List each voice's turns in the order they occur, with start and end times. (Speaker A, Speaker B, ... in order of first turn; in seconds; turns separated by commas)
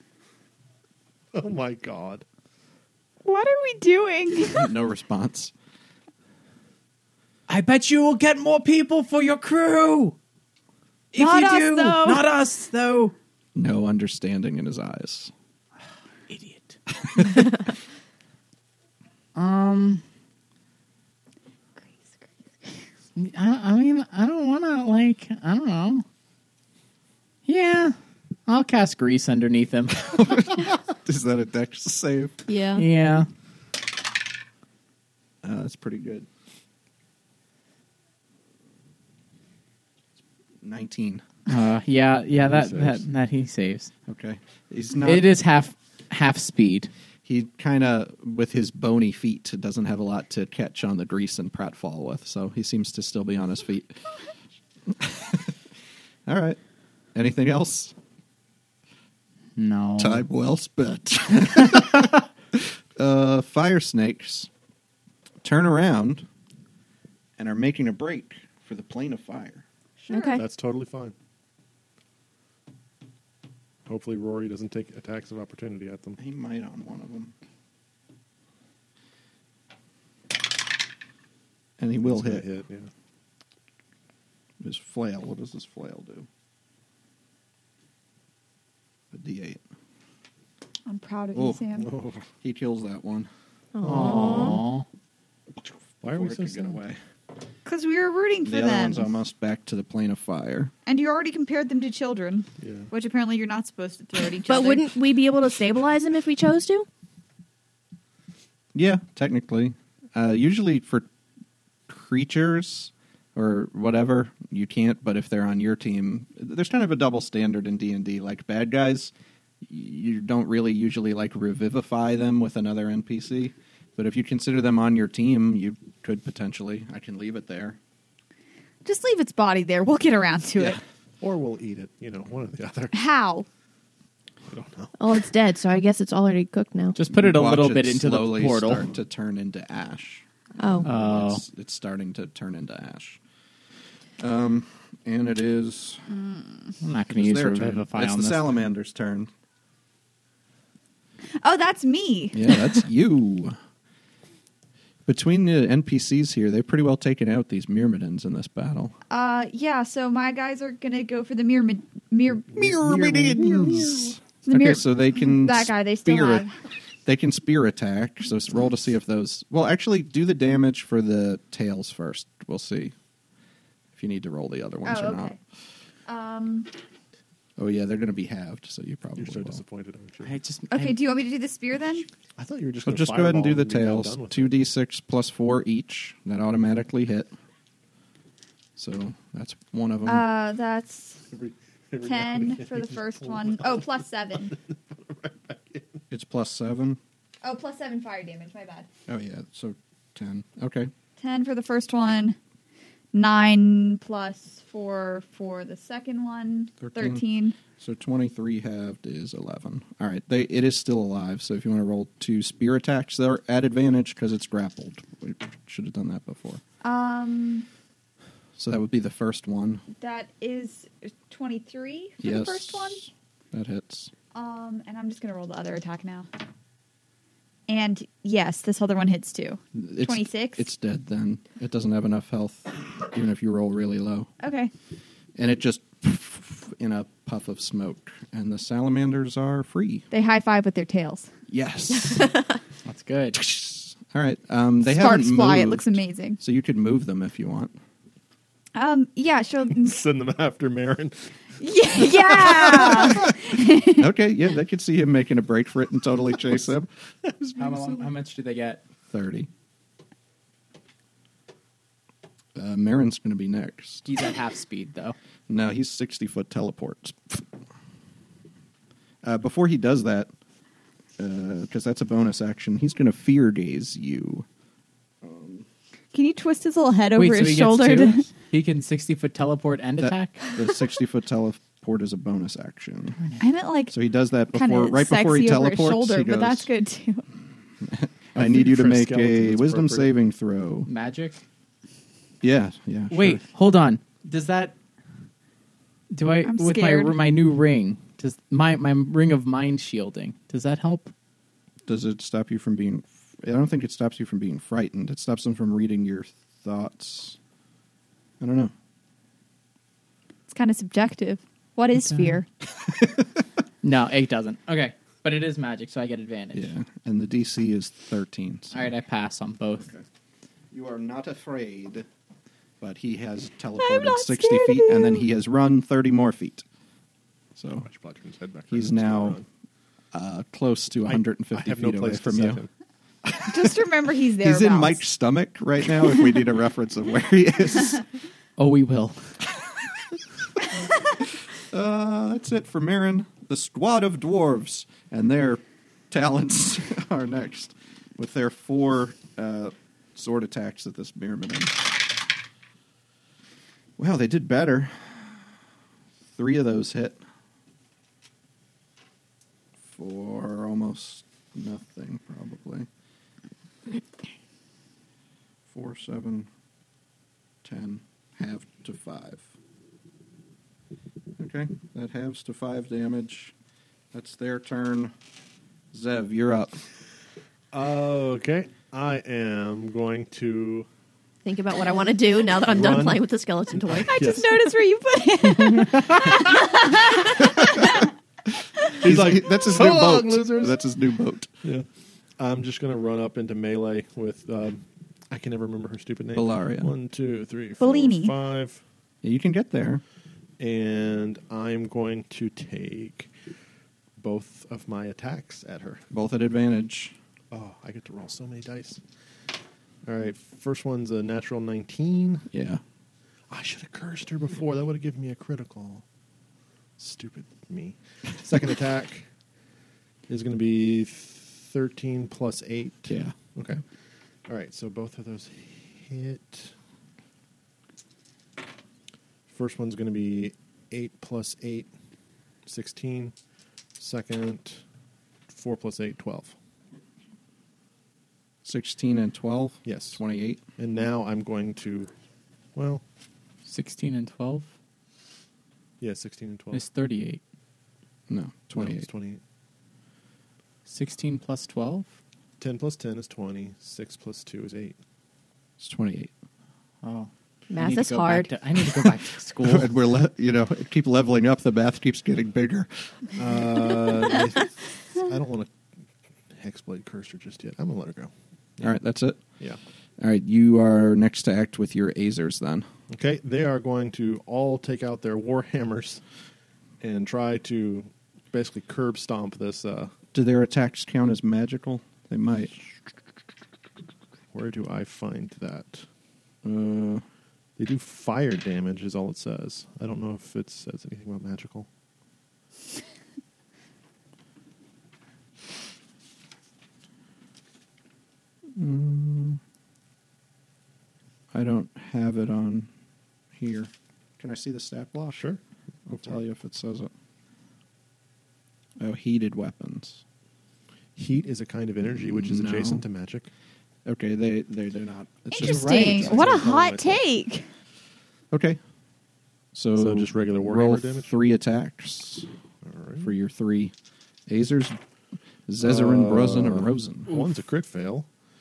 Speaker A: 1.3-2.2, Speaker B: 3.2-4.7, Speaker C: 4.5-5.5, Speaker D: 7.5-10.2, Speaker D: 11.1-13.1, Speaker B: 11.2-12.2, Speaker C: 13.6-15.3, Speaker D: 16.3-16.8, Speaker C: 17.2-17.4, Speaker D: 19.4-20.0, Speaker B: 21.8-22.7, Speaker D: 23.2-26.1, Speaker D: 27.4-28.0, Speaker D: 28.5-30.1, Speaker C: 30.0-32.4, Speaker E: 32.5-32.9, Speaker D: 32.8-33.3, Speaker C: 35.4-36.3, Speaker C: 40.6-41.2, Speaker D: 41.5-43.9, Speaker A: 42.5-43.0, Speaker C: 44.1-45.3, Speaker D: 45.0-46.9, Speaker C: 47.2-54.0, Speaker C: 54.9-55.5, Speaker C: 56.3-56.6, Speaker C: 57.1-58.0, Speaker D: 59.6-60.2, Speaker C: 60.0-64.5, Speaker C: 65.4-66.3, Speaker C: 67.4-69.6, Speaker B: 70.0-70.4, Speaker E: 70.1-70.4, Speaker A: 70.4-71.2, Speaker A: 73.9-76.2, Speaker C: 76.2-77.3, Speaker C: 81.8-82.4, Speaker A: 82.0-82.9, Speaker C: 84.6-86.3, Speaker C: 89.1-89.6, Speaker B: 90.9-91.9, Speaker C: 91.3-91.6, Speaker A: 91.8-92.3, Speaker C: 92.3-93.3, Speaker E: 93.8-94.6, Speaker D: 93.8-94.8, Speaker C: 94.0-94.3, Speaker C: 95.6-97.0, Speaker A: 96.0-96.8, Speaker B: 97.7-99.1, Speaker C: 98.5-100.7, Speaker B: 100.9-104.9, Speaker A: 102.6-102.9, Speaker E: 104.5-106.9, Speaker C: 108.7-111.1, Speaker C: 111.9-119.1, Speaker C: 119.6-127.8, Speaker B: 128.8-130.8, Speaker A: 131.2-133.1, Speaker B: 132.9-133.5, Speaker A: 134.5-135.0, Speaker E: 135.0-137.0, Speaker D: 136.9-138.8, Speaker C: 137.1-143.2, Speaker E: 140.6-140.9, Speaker D: 140.8-141.4, Speaker C: 144.2-146.1, Speaker D: 146.8-148.5, Speaker C: 147.1-149.3, Speaker B: 151.4-152.8, Speaker C: 152.3-153.6, Speaker C: 155.1-158.9, Speaker B: 159.1-166.6, Speaker C: 162.6-166.5, Speaker A: 163.4-163.9, Speaker C: 167.1-172.9, Speaker C: 173.9-175.3, Speaker B: 174.8-175.4, Speaker B: 176.1-176.7, Speaker C: 177.6-179.6, Speaker A: 179.2-180.3, Speaker D: 180.2-181.0, Speaker B: 180.7-182.1, Speaker A: 182.4-184.6, Speaker C: 182.9-187.3, Speaker C: 188.8-190.2, Speaker B: 190.1-191.3, Speaker A: 191.3-193.9, Speaker B: 192.0-194.6, Speaker A: 194.5-196.0, Speaker C: 196.1-197.0, Speaker B: 197.4-198.9, Speaker C: 199.1-200.9, Speaker B: 201.2-202.4, Speaker B: 203.1-207.6, Speaker C: 206.8-216.6, Speaker B: 216.8-217.7, Speaker C: 218.6-219.8, Speaker B: 220.0-223.1, Speaker C: 222.2-224.1, Speaker B: 224.3-226.3, Speaker B: 227.7-230.7, Speaker C: 229.8-234.3, Speaker B: 234.4-234.7, Speaker C: 235.4-240.1, Speaker B: 240.1-241.3, Speaker C: 241.5-242.4, Speaker D: 242.9-243.4, Speaker C: 243.3-247.8, Speaker B: 244.8-246.4, Speaker B: 248.8-250.0, Speaker A: 249.8-251.4, Speaker B: 251.6-254.1, Speaker A: 252.0-253.3, Speaker C: 254.0-257.8, Speaker D: 257.6-258.8, Speaker C: 259.1-259.5, Speaker C: 262.6-264.1, Speaker D: 264.1-265.2, Speaker C: 265.5-267.5, Speaker C: 269.2-270.3, Speaker C: 271.2-274.5, Speaker C: 275.2-275.7, Speaker B: 276.1-278.3, Speaker D: 277.2-280.5, Speaker C: 280.0-283.2, Speaker B: 283.4-283.9, Speaker C: 283.9-286.7, Speaker B: 284.5-287.3, Speaker C: 287.8-290.9, Speaker A: 288.4-290.1, Speaker D: 290.9-291.4, Speaker C: 292.4-293.4, Speaker D: 293.1-294.8, Speaker D: 296.1-301.1, Speaker B: 296.4-297.1, Speaker C: 301.9-307.4, Speaker C: 308.4-308.7, Speaker B: 310.5-312.5, Speaker D: 312.1-312.4, Speaker C: 312.8-313.3, Speaker D: 313.8-316.7, Speaker C: 316.5-318.9, Speaker D: 318.7-319.9, Speaker C: 320.7-322.1, Speaker C: 322.8-326.6, Speaker B: 323.8-325.3, Speaker C: 327.6-327.9, Speaker A: 327.7-329.4, Speaker C: 328.7-329.4, Speaker C: 330.1-332.6, Speaker A: 331.1-332.7, Speaker B: 333.4-335.0, Speaker C: 334.4-338.0, Speaker D: 338.6-339.4, Speaker C: 341.6-351.9, Speaker C: 354.0-355.4, Speaker C: 356.4-357.2, Speaker C: 359.9-362.9, Speaker C: 365.7-366.5, Speaker C: 367.6-369.5, Speaker C: 371.4-373.5, Speaker C: 374.1-375.1, Speaker C: 375.9-376.8, Speaker A: 377.7-380.9, Speaker E: 381.4-384.3, Speaker A: 382.6-383.2, Speaker A: 383.8-384.5, Speaker B: 384.1-388.0, Speaker A: 385.8-386.3, Speaker A: 389.0-390.8, Speaker C: 389.0-391.5, Speaker A: 392.4-398.8, Speaker C: 396.3-396.9, Speaker B: 397.8-398.4, Speaker C: 399.2-400.0, Speaker A: 400.6-403.3, Speaker A: 404.2-406.1, Speaker C: 406.1-407.1, Speaker A: 407.5-409.0, Speaker A: 410.0-412.5, Speaker C: 412.5-412.8, Speaker A: 413.5-416.0, Speaker A: 417.0-419.3, Speaker A: 420.3-423.9, Speaker C: 423.1-423.4, Speaker A: 424.4-426.8, Speaker A: 429.5-431.9, Speaker A: 432.6-433.3, Speaker A: 434.0-434.8, Speaker A: 435.5-436.6, Speaker C: 438.6-440.6, Speaker A: 439.9-440.2, Speaker A: 440.8-442.1, Speaker A: 442.8-443.0, Speaker D: 443.7-444.7, Speaker A: 446.0-446.8, Speaker D: 446.7-447.4, Speaker C: 448.3-449.1, Speaker A: 448.8-449.4, Speaker D: 450.9-452.1, Speaker A: 452.6-455.0, Speaker C: 455.8-456.3, Speaker D: 457.0-459.9, Speaker E: 457.7-458.5, Speaker C: 459.6-462.9, Speaker A: 463.4-465.8, Speaker A: 466.5-468.3, Speaker C: 468.8-469.4, Speaker C: 470.2-472.9, Speaker A: 473.1-476.2, Speaker A: 477.0-480.1, Speaker C: 480.3-482.8, Speaker A: 484.5-486.1, Speaker C: 486.6-487.2, Speaker A: 487.8-491.9, Speaker C: 498.8-499.6, Speaker C: 501.5-502.9, Speaker C: 503.6-505.4, Speaker A: 505.3-506.3, Speaker C: 506.1-507.1, Speaker C: 509.0-510.2, Speaker A: 511.2-513.5, Speaker C: 512.2-513.0, Speaker C: 514.0-516.7, Speaker B: 515.5-517.7, Speaker A: 515.7-517.2, Speaker C: 518.5-518.8, Speaker C: 519.7-522.5, Speaker A: 520.0-521.3, Speaker A: 522.8-523.3, Speaker C: 523.2-523.9, Speaker C: 524.5-525.0, Speaker C: 525.7-527.4, Speaker A: 525.8-528.3